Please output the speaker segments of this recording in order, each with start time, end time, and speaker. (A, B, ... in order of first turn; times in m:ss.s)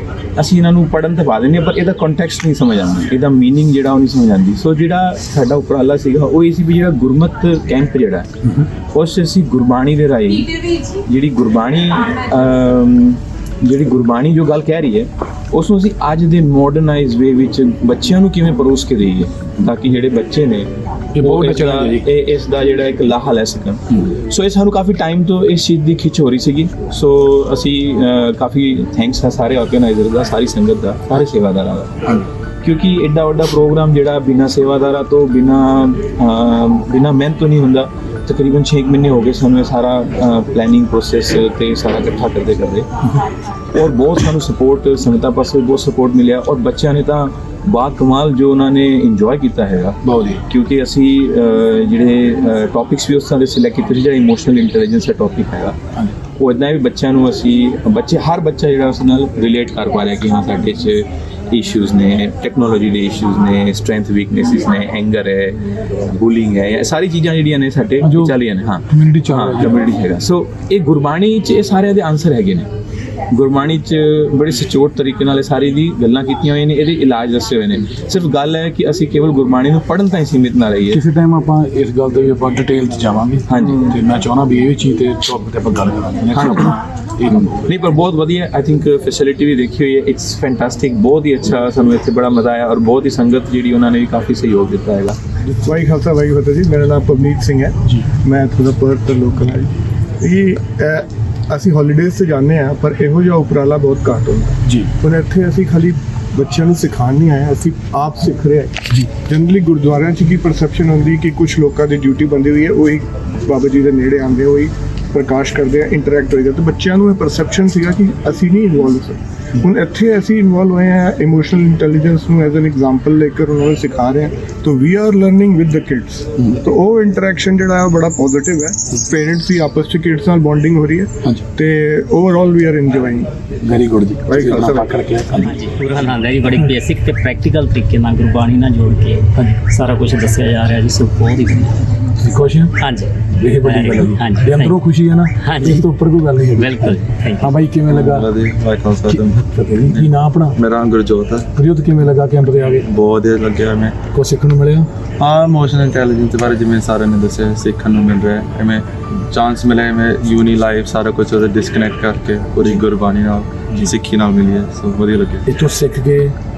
0:00.4-0:08.3 A
0:08.9-0:32.0 A
0:21.1-0:22.1 B
0:32.6-0:42.9 A
0:43.7-0:55.8 A
0:50.0-0:50.4 B
0:56.4-1:12.7 A
1:08.0-1:08.4 B
1:08.9-1:09.8 B
1:13.3-1:21.0 A
1:20.9-1:27.7 B
1:23.5-1:24.0 A
1:26.3-1:26.8 A
1:27.6-1:35.2 A
1:35.6-2:13.3 C
1:44.6-1:44.9 B
2:13.6-2:15.6 B
2:14.3-2:14.9 C
2:15.4-2:21.8 D
2:22.2-2:22.7 B
2:22.8-2:24.8 D
2:23.3-2:28.4 B
2:25.4-2:25.9 D
2:26.6-2:27.5 D
2:27.9-2:31.5 E
2:29.0-2:30.6 B
2:31.5-2:32.9 B
2:32.8-2:34.0 E
2:34.1-2:34.9 B
2:35.2-2:45.4 E
2:45.4-2:46.4 B